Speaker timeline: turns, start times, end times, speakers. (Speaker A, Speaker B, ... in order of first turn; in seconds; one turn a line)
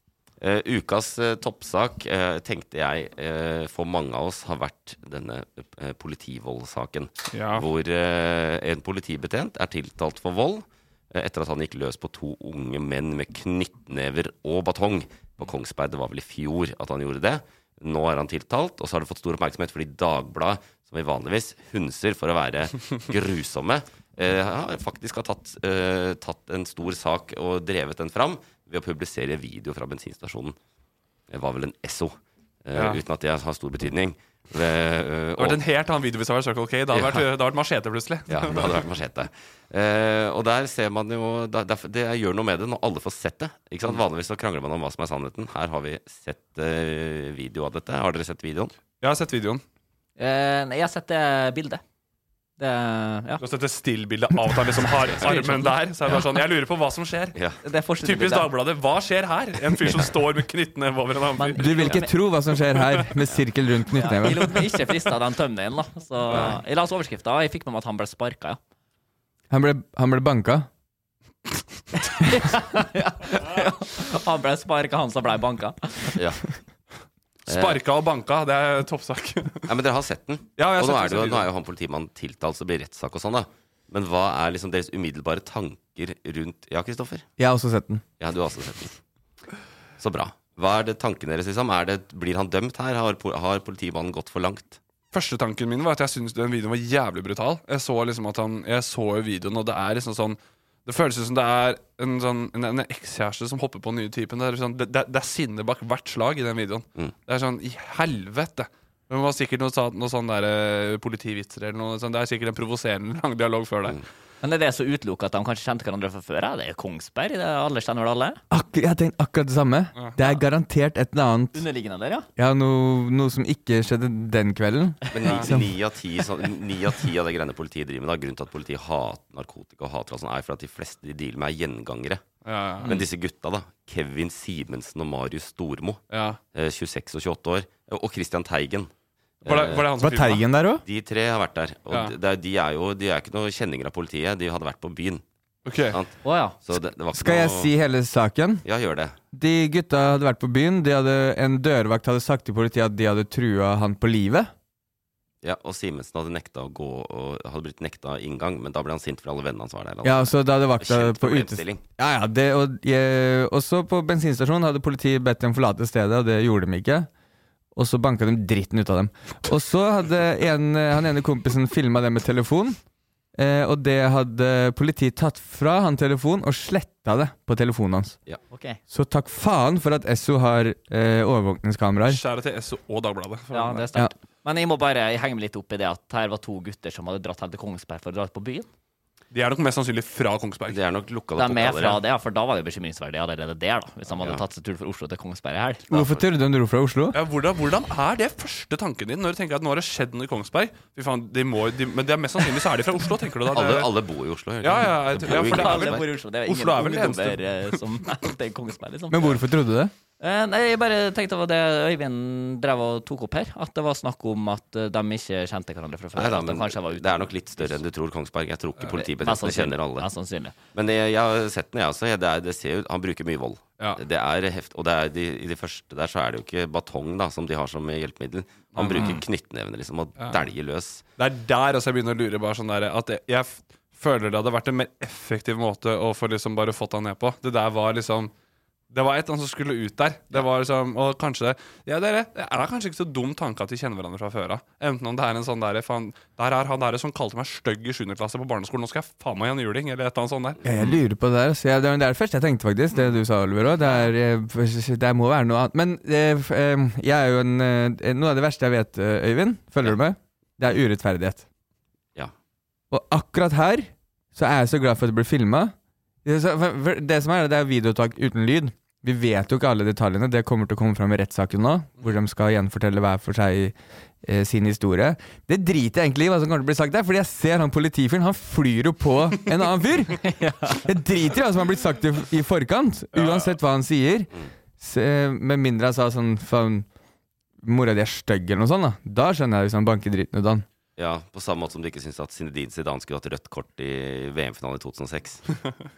Speaker A: 0.4-30.6
Speaker B: 7.3-7.7
Speaker A: 31.3-32.1
Speaker A: 32.6-35.6
Speaker B: 32.7-33.0
Speaker B: 35.4-38.8
Speaker A: 36.9-37.2
Speaker A: 38.3-48.7
Speaker B: 49.0-49.6
Speaker C: 50.2-51.8
Speaker C: 52.6-53.4
Speaker B: 53.4-57.4
Speaker C: 55.1-55.8
Speaker C: 57.6-58.5
Speaker B: 58.0-62.0
Speaker C: 61.4-62.1
Speaker D: 61.6-64.6
Speaker C: 64.0-68.6
Speaker A: 66.3-66.6
Speaker D: 69.5-70.7
Speaker C: 72.1-76.2
Speaker A: 76.2-76.4
Speaker B: 77.5-79.7
Speaker A: 77.5-77.8
Speaker A: 79.7-87.2
Speaker B: 80.6-81.5
Speaker D: 87.4-88.0
Speaker A: 88.2-89.0
Speaker A: 90.0-94.8
Speaker B: 95.1-114.0
Speaker C: 114.4-118.4
Speaker D: 118.5-121.6
Speaker C: 121.5-122.3
Speaker D: 122.3-125.7
Speaker A: 125.1-132.2
Speaker B: 132.4-132.9
Speaker A: 132.8-136.0
Speaker B: 136.1-136.4
Speaker A: 136.5-138.9
Speaker B: 139.4-140.4
Speaker A: 139.4-139.9
Speaker D: 140.0-140.8
Speaker A: 140.8-145.2
Speaker B: 141.9-142.2
Speaker B: 145.6-146.0
Speaker C: 146.2-146.6
Speaker A: 146.6-147.7
Speaker D: 147.1-148.6
Speaker A: 148.6-149.1
Speaker D: 149.3-154.5
Speaker A: 155.4-161.8
Speaker D: 160.0-167.1
Speaker D: 167.7-172.8
Speaker D: 173.3-178.2
Speaker C: 178.5-178.8
Speaker D: 178.9-182.2
Speaker B: 182.1-183.9
Speaker C: 183.5-188.7
Speaker B: 189.3-190.8
Speaker A: 190.7-192.0
Speaker C: 191.4-195.8
Speaker A: 194.2-194.4
Speaker A: 195.9-196.2
Speaker D: 195.9-197.2
Speaker B: 197.1-203.9
Speaker A: 203.5-206.0
Speaker B: 204.6-207.8
Speaker C: 205.2-209.4
Speaker D: 209.1-209.9
Speaker C: 210.2-217.8
Speaker A: 216.2-220.1
Speaker C: 218.9-220.5
Speaker A: 220.7-231.0
Speaker B: 228.7-229.2
Speaker B: 231.2-238.3
Speaker B: 238.9-250.6
Speaker D: 250.6-261.4
Speaker D: 262.9-286.9
Speaker C: 280.2-280.8
Speaker B: 283.1-283.6
Speaker D: 287.6-290.6
Speaker A: 291.0-295.4